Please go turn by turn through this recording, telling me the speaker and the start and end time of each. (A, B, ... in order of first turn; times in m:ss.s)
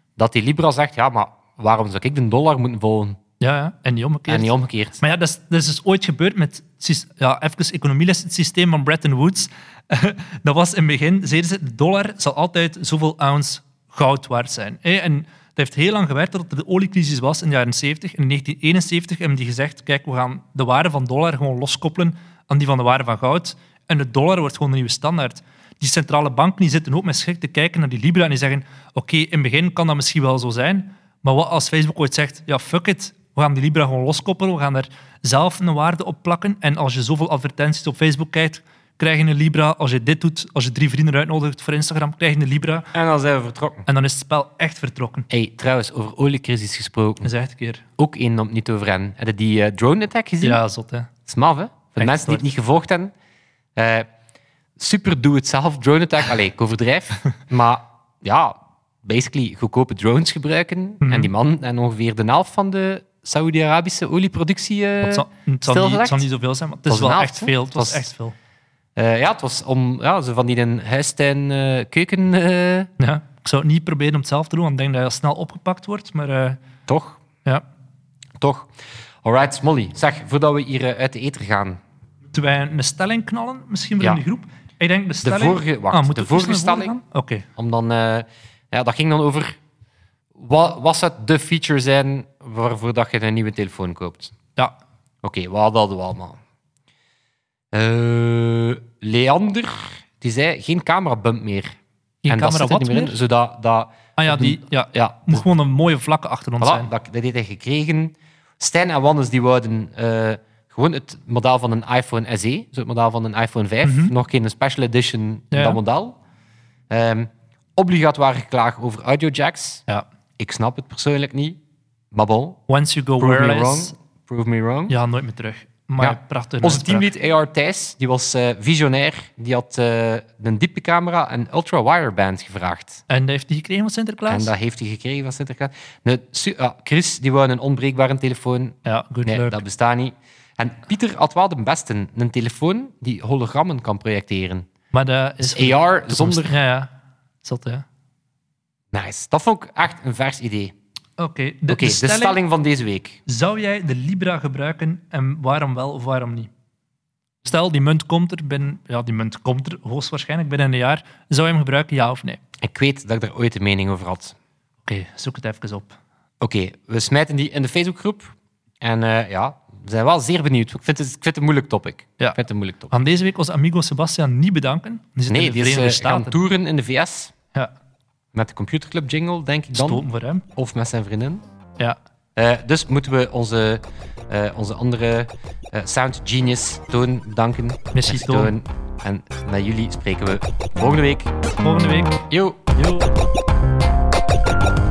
0:00.2-0:03.2 A
0:03.4-0:42.9 B
0:04.3-0:05.0 A
0:42.9-0:43.9 A
0:43.9-0:45.3 B
0:45.3-0:47.3 A
0:47.2-0:47.8 B
0:48.0-0:50.6 A
0:50.4-0:51.1 B
0:51.3-0:53.1 A
0:52.0-0:52.4 B
0:53.8-0:54.1 A
0:54.8-1:06.3 A
1:01.0-1:01.3 B
1:05.0-1:08.4 B
1:06.9-1:08.1 A
1:09.0-1:12.9 A
1:13.0-1:16.6 B
1:16.9-1:17.2 A
1:18.4-1:21.8 A
1:22.3-1:27.5 B
1:25.2-1:27.0 A
1:27.6-1:29.6 A
1:30.4-1:34.4 A
1:35.2-1:36.4 A
1:37.7-1:41.8 A
1:42.2-1:43.2 B
1:42.3-1:45.4 A
1:44.2-1:46.9 B
1:46.6-1:56.2 A
1:53.8-1:54.1 B
1:55.5-1:55.8 B
1:56.9-1:59.8 A
2:00.4-2:01.6 A
2:02.1-2:02.6 A
2:02.7-2:04.0 B
2:03.2-2:04.9 A
2:04.9-2:07.1 B
2:06.0-2:13.0 A
2:13.1-2:14.5 B
2:14.3-2:24.7 A
2:18.8-2:19.6 B
2:24.9-2:26.9 B
2:25.4-2:26.6 A
2:27.4-2:27.8 B
2:28.9-2:30.7 A
2:31.2-2:32.4 B
2:31.7-2:33.2 A
2:33.3-2:36.5 B
2:37.4-2:42.4 B
2:42.6-2:44.4 A
2:44.9-2:46.0 B
2:46.4-2:52.9 A
2:52.9-2:56.4 B
2:55.3-2:57.3 A
2:58.3-3:00.0 A
2:59.7-3:00.5 B
3:00.6-3:01.4 A
3:02.4-3:11.3 A
3:07.9-3:08.5 B
3:11.6-3:12.2 B
3:12.3-3:13.1 A